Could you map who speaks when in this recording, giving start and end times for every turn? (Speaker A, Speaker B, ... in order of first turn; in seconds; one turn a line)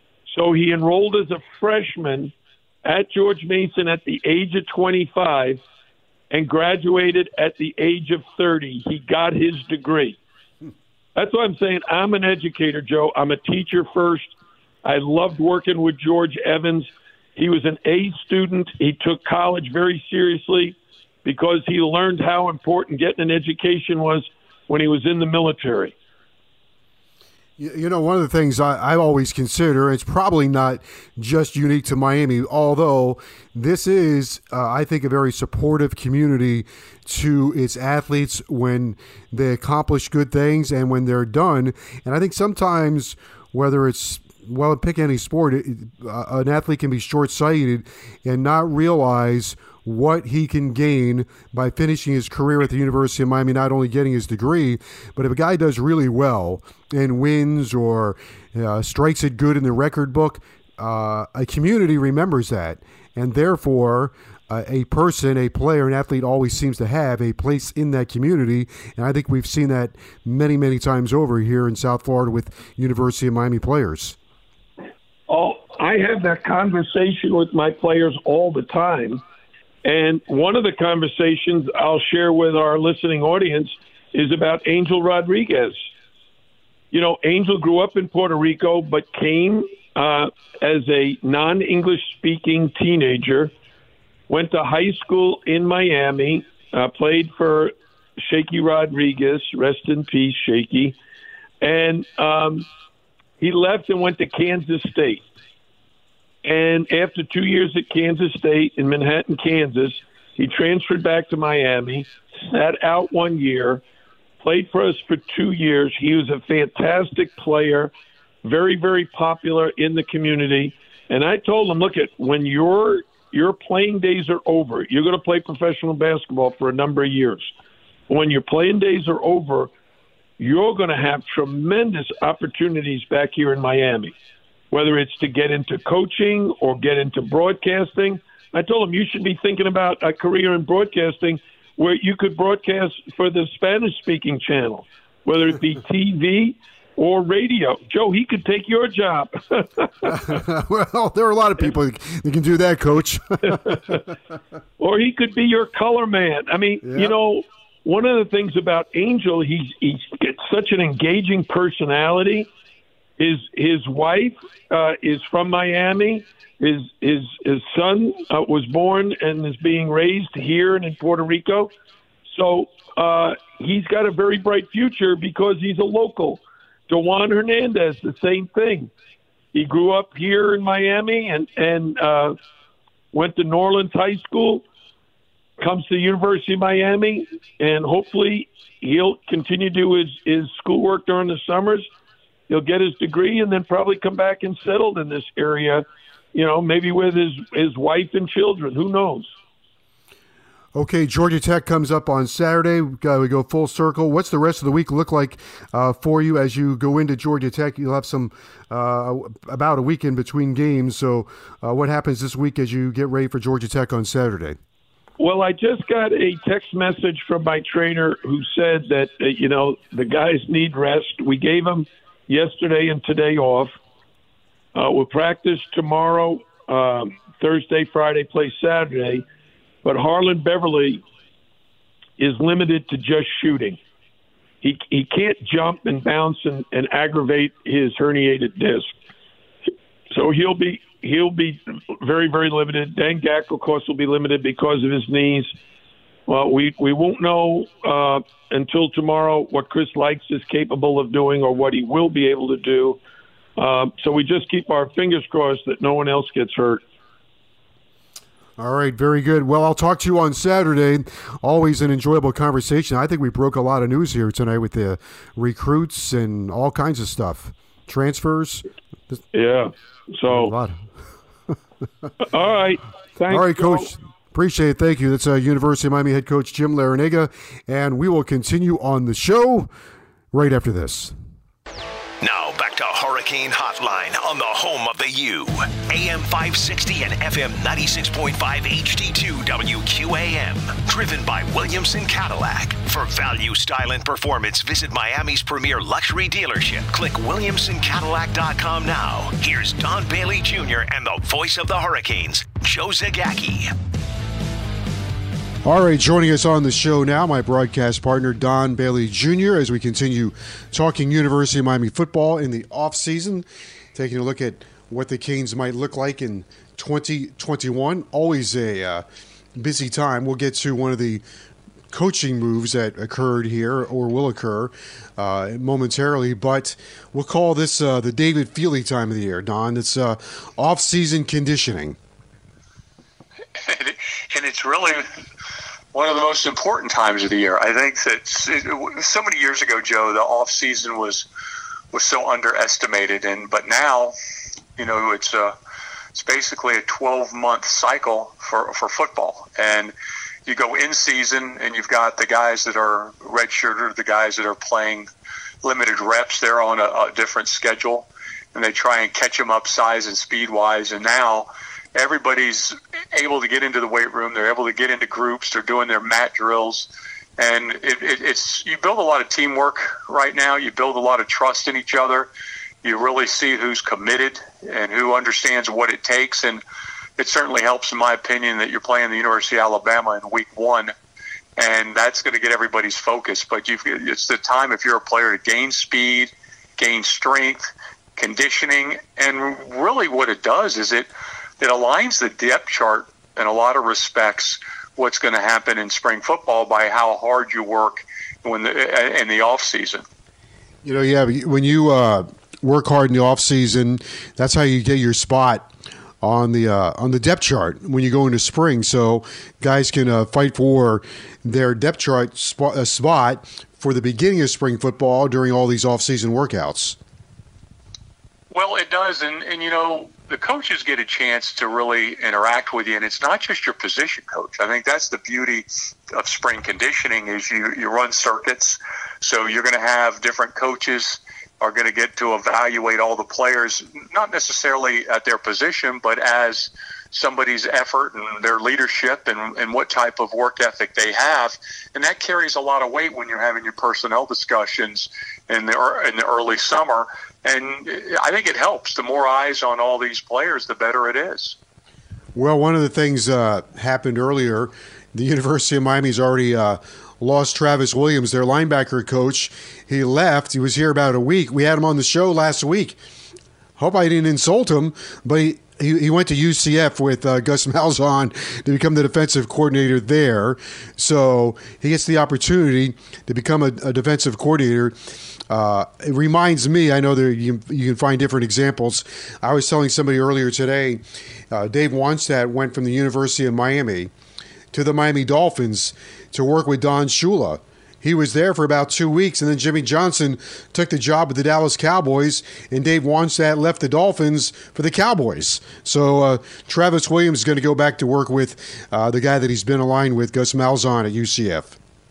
Speaker A: 0.3-2.3
Speaker A: 2.8-5.6
Speaker A: 6.3-10.2
Speaker A: 11.2-14.3
Speaker A: 14.8-25.9
Speaker B: 27.6-74.2
Speaker A: 75.3-79.2
Speaker A: 79.8-85.8
Speaker A: 86.9-93.5
Speaker A: 94.3-101.0
Speaker A: 101.6-102.7
Speaker A: 103.4-105.3
Speaker A: 106.4-113.8
Speaker A: 114.4-117.9
Speaker A: 118.4-127.5
Speaker A: 128.1-129.7
Speaker A: 130.4-134.1
Speaker A: 134.7-150.1
Speaker B: 150.1-154.0
Speaker A: 153.7-153.9
Speaker A: 154.8-162.5
Speaker B: 156.8-157.2
Speaker A: 163.2-171.7
Speaker A: 172.3-178.9
Speaker A: 179.5-182.4
Speaker A: 183.1-184.6
Speaker A: 185.6-191.9
Speaker A: 192.5-199.3
Speaker B: 200.7-214.6
Speaker A: 215.2-223.7
Speaker A: 224.7-229.2
Speaker A: 229.8-231.0
Speaker A: 232.2-233.8
Speaker A: 234.6-238.9
Speaker A: 240.1-245.5
Speaker A: 246.3-253.0
Speaker A: 253.6-256.8
Speaker B: 258.6-269.2
Speaker A: 269.3-270.5
Speaker B: 270.3-270.9
Speaker A: 272.2-273.9
Speaker B: 273.3-279.7
Speaker B: 280.3-281.1
Speaker C: 282.2-303.7
Speaker B: 305.6-321.2
Speaker B: 321.9-332.0
Speaker D: 333.7-335.1
Speaker D: 335.9-341.3
Speaker D: 341.9-344.1
Speaker D: 344.8-345.6
Speaker D: 346.1-349.9
Speaker D: 350.4-355.1
Speaker D: 355.6-372.3
Speaker D: 372.8-376.6
Speaker D: 377.2-380.9
Speaker D: 381.6-391.1
Speaker D: 391.6-400.0
Speaker B: 400.8-405.7
Speaker B: 406.2-417.0
Speaker D: 418.5-451.6
Speaker B: 452.3-463.0
Speaker B: 463.8-474.9
Speaker B: 475.5-484.1
Speaker B: 484.7-501.7